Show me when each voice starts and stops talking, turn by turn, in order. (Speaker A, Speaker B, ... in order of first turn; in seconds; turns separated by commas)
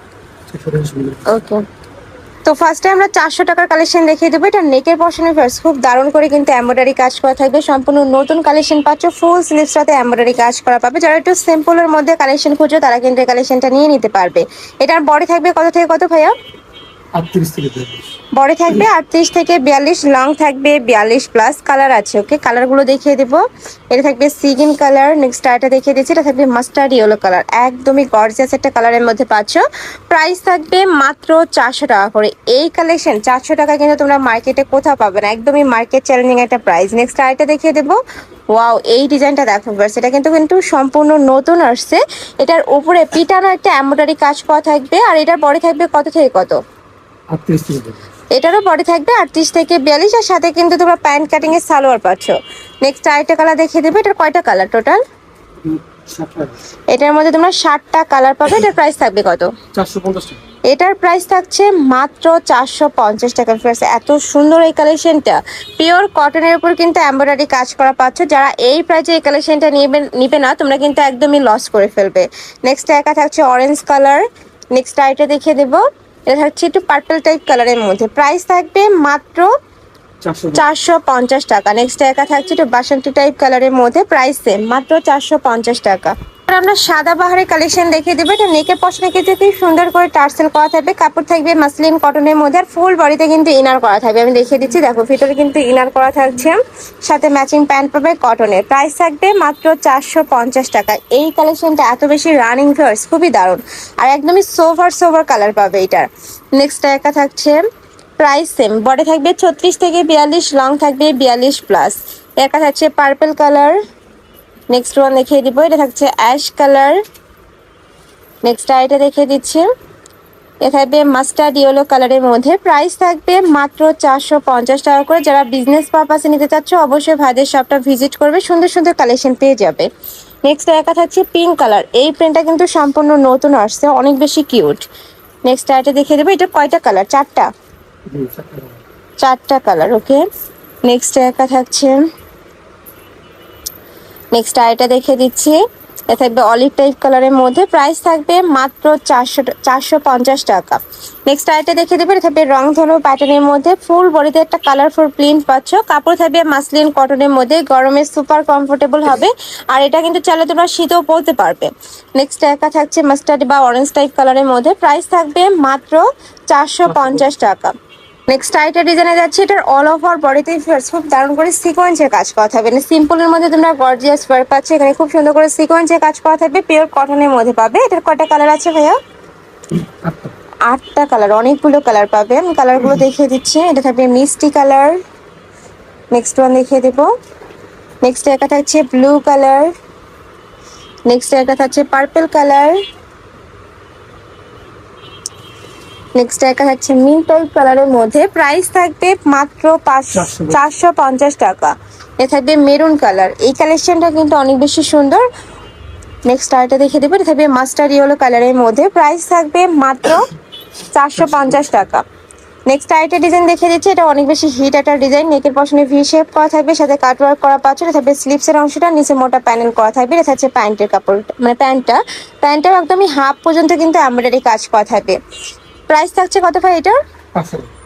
Speaker A: 0.5-1.3, Speaker B: 1.2-1.6, Speaker B: 2.4-16.3, Speaker A: 17.1-18.0, Speaker B: 18.3-23.4, Speaker B: 23.9-38.0, Speaker B: 38.5-46.6, Speaker A: 47.3-48.0, Speaker B: 48.3-55.0, Speaker A: 55.6-56.6, Speaker B: 56.9-59.5, Speaker A: 59.7-60.4, Speaker B: 60.7-79.5, Speaker A: 80.2-80.6, Speaker B: 80.5-107.6, Speaker B: 108.2-113.8, Speaker B: 114.7-117.0, Speaker B: 118.4-119.7, Speaker B: 120.6-129.9, Speaker B: 130.4-134.8, Speaker B: 135.4-137.5, Speaker A: 138.1-138.8, Speaker B: 139.2-140.2, Speaker B: 140.8-142.0, Speaker B: 144.3-167.7, Speaker A: 166.9-167.2, Speaker B: 168.3-179.0, Speaker A: 179.7-180.3, Speaker B: 180.7-185.0, Speaker B: 186.1-187.1, Speaker B: 188.0-189.7, Speaker B: 191.1-192.8, Speaker B: 196.2-205.3, Speaker A: 200.2-200.6, Speaker B: 206.2-210.3, Speaker B: 210.9-212.0, Speaker B: 212.7-225.2, Speaker B: 225.9-227.0, Speaker A: 227.3-227.7